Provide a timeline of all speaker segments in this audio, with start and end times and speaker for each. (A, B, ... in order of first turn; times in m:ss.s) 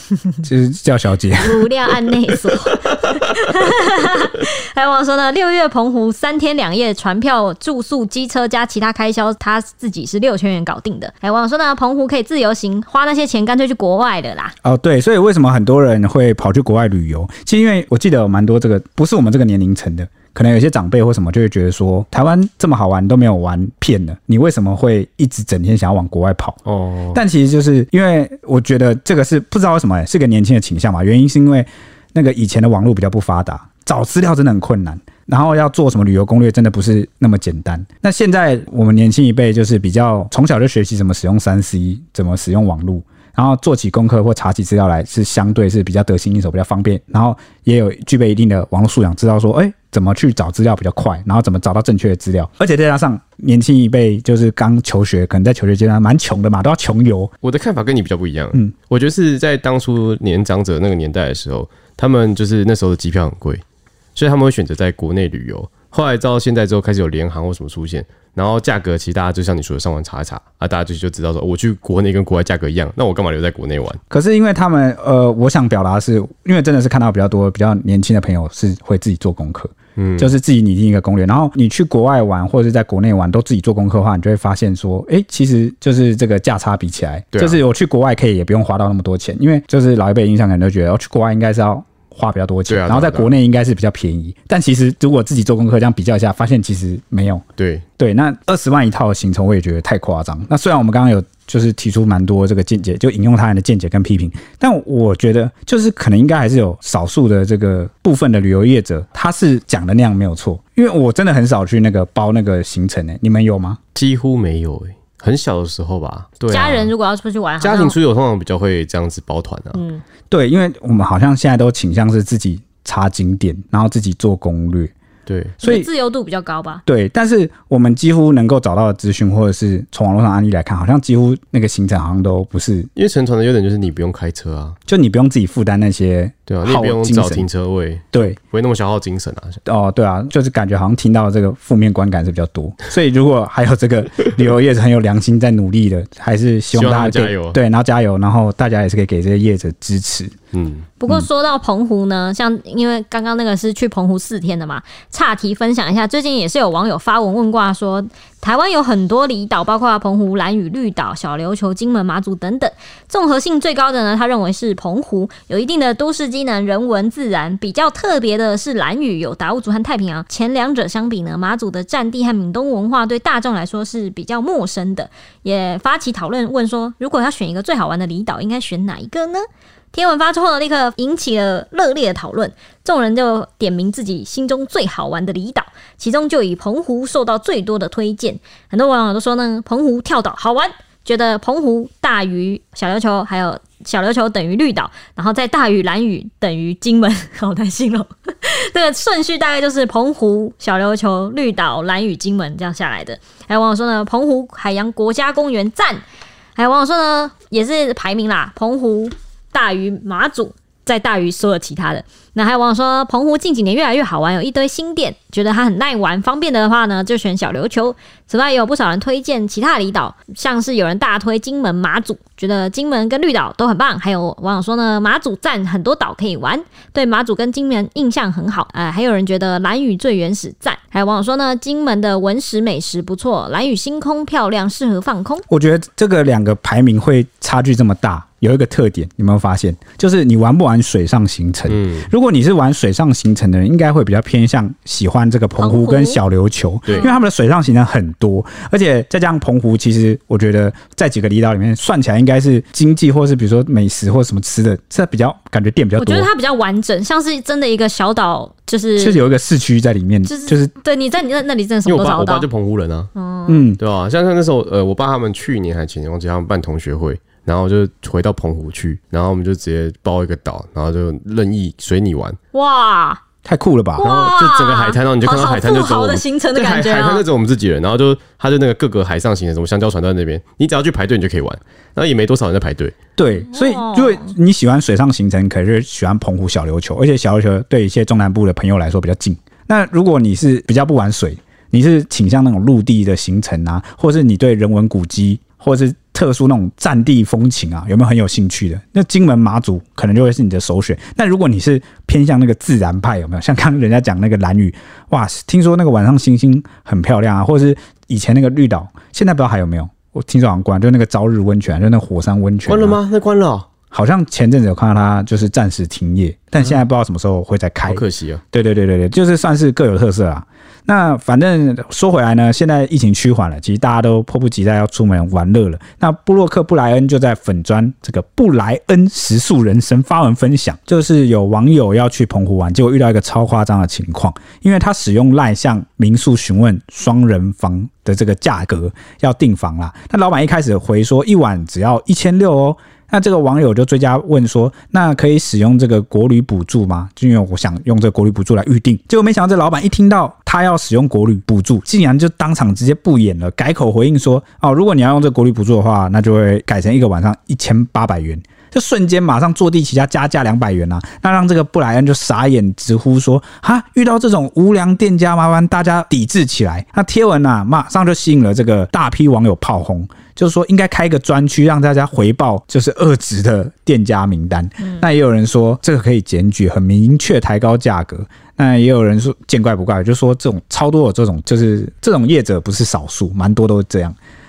0:00.4-0:01.7 A
0:01.4-0:14.5 B
0:14.6-0:26.6 A
0:26.7-0:27.2 C
0:27.1-0:57.3 A
0:57.4-1:03.6 C
1:04.2-1:14.0 C
1:14.1-1:37.4 A
1:20.0-1:20.3 C
1:27.3-1:27.6 C
1:32.7-1:33.3 C
1:37.6-1:37.8 C
1:38.0-1:53.8 A
1:54.0-1:56.9 C
1:56.5-1:58.0 B
1:57.6-1:59.8 C
1:59.7-2:00.0 B
2:00.3-2:04.9 A
2:05.3-2:05.6 C
2:05.6-2:06.8 B
2:05.6-2:05.9 A
2:06.9-2:12.9 A
2:13.0-2:14.8 C
2:14.9-2:17.5 A
2:16.5-2:19.6 C
2:19.6-2:30.4 A
2:26.7-2:27.6 C
2:30.5-2:30.9 C
2:31.0-3:26.0 B
3:26.6-3:55.5 B
3:55.5-4:16.3 A
4:01.7-4:02.1 C
4:05.6-4:06.2 B
4:06.9-4:07.2 B
4:16.0-4:19.2 B
4:19.0-4:20.7 A
4:20.2-4:22.5 B
4:21.9-4:23.1 C
4:23.2-4:23.7 B
4:23.5-4:23.8 A
4:23.8-4:32.4 C
4:32.5-4:33.2 B
4:33.4-4:34.1 A
4:34.0-4:37.2 B
4:34.0-4:43.0 C
4:43.2-5:13.0 A
4:43.4-4:44.3 B
5:12.7-5:13.7 C
5:13.9-6:24.2 A
5:17.9-5:18.4 C
6:14.8-6:15.0 B